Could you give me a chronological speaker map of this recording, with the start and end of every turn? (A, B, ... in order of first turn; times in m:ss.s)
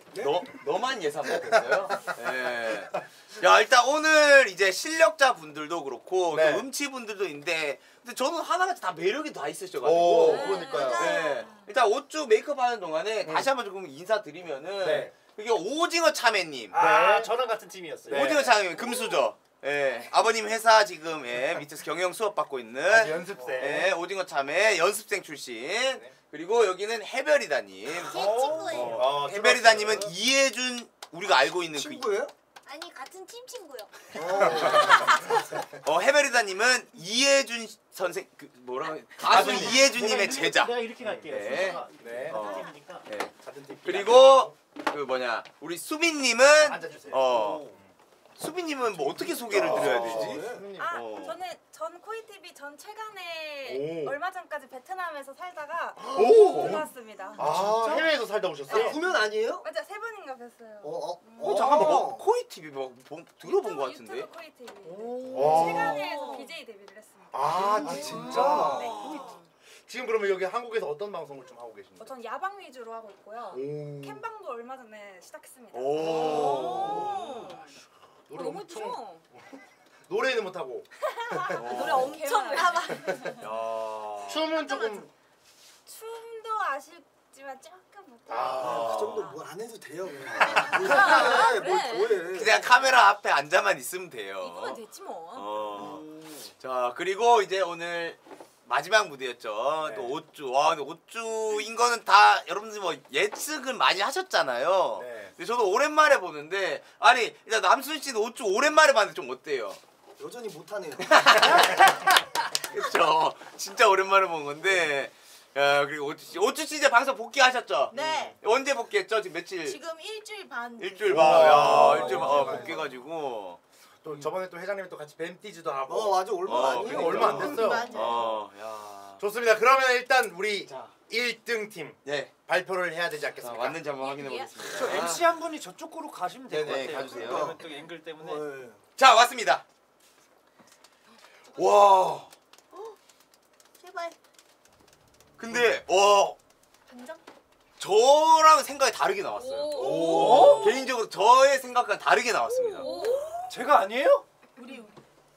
0:00.1-0:00.4 A
0:00.2-0:16.8 B
0:01.4-0:01.8 C
0:06.3-0:06.6 C
0:09.8-0:11.2 C
0:10.2-0:11.6 D
0:10.5-0:11.3 E
0:14.8-0:15.1 C
0:16.7-0:18.5 F
0:16.7-0:17.3 C
0:18.1-0:18.6 C
0:18.1-0:32.1 B
0:22.9-0:24.0 C
0:23.4-0:23.8 F
0:27.9-0:29.0 G
0:28.1-0:29.0 F
0:28.7-0:30.1 C
0:31.7-0:32.3 A
0:32.6-0:33.9 G
0:34.1-0:35.0 A
0:34.4-0:35.5 C
0:35.8-0:43.3 B
0:39.3-0:39.9 C
0:39.3-0:43.1 F
0:42.0-0:42.4 C
0:43.4-0:44.5 C
0:43.8-0:47.6 B
0:46.6-0:47.9 C
0:47.1-0:47.8 F
0:48.4-0:51.4 B
0:49.1-0:49.5 F
0:49.4-0:51.0 C
0:49.7-0:50.7 A
0:50.8-0:57.4 D
0:53.6-0:54.2 C
0:56.0-0:59.0 C
0:57.4-0:58.1 F
0:58.7-0:59.7 A
0:58.7-1:01.8 D
1:00.8-1:02.2 A
1:01.4-1:04.3 B
1:03.4-1:07.5 D
1:04.8-1:05.8 F
1:05.3-1:06.0 C
1:05.6-1:06.5 E
1:07.3-1:09.2 C
1:07.5-1:09.1 A
1:07.7-1:08.7 F
1:07.8-1:09.0 B
1:08.6-1:09.4 D
1:09.0-1:09.2 E
1:09.9-1:12.2 C
1:12.0-1:17.7 D
1:13.5-1:14.2 C
1:15.7-1:17.1 B
1:16.0-1:17.6 C
1:16.3-1:17.5 E
1:18.3-1:19.2 C
1:18.3-1:19.2 D
1:20.1-1:21.6 C
1:21.5-1:23.3 E
1:21.6-1:22.2 B
1:21.7-1:23.4 D
1:23.4-1:24.4 B
1:24.3-1:25.1 C
1:24.5-1:25.1 D
1:25.8-1:29.4 D
1:28.3-1:29.3 C
1:28.4-1:28.8 B
1:28.5-1:32.5 A
1:30.4-1:30.8 C
1:30.5-1:32.4 E
1:30.6-1:31.6 D
1:32.3-1:34.8 B
1:34.4-1:35.6 E
1:35.3-1:36.0 B
1:36.6-1:49.8 B
1:39.8-1:40.2 C
1:45.0-1:45.3 C
1:50.2-1:51.3 A
1:51.1-1:52.2 B
1:52.7-1:59.8 B
1:57.9-1:58.3 G
1:59.7-2:01.8 G
2:00.8-2:03.6 B
2:01.0-2:02.9 C
2:01.6-2:02.8 A
2:04.0-2:08.4 C
2:05.9-2:07.7 A
2:06.4-2:09.2 B
2:07.5-2:08.1 G
2:09.2-2:13.9 C
2:10.7-2:10.9 B
2:12.0-2:12.3 B
2:13.4-2:15.2 B
2:14.0-2:14.6 D
2:14.1-2:14.3 E
2:14.7-2:18.5 F
2:16.5-2:17.6 B
2:16.6-2:17.1 C
2:17.1-2:17.6 A
2:18.2-2:18.8 A
2:19.0-2:19.6 B
2:21.6-2:22.0 C
2:21.6-2:22.3 B
2:23.8-2:24.1 G
2:25.4-2:26.4 B
2:27.8-2:33.0 B
2:29.3-2:30.7 D
2:29.8-2:30.7 C
2:29.8-2:30.8 F
2:32.6-2:33.3 G
2:32.8-2:33.3 D
2:32.8-2:33.2 E
2:33.5-2:34.2 F
2:34.6-2:34.9 G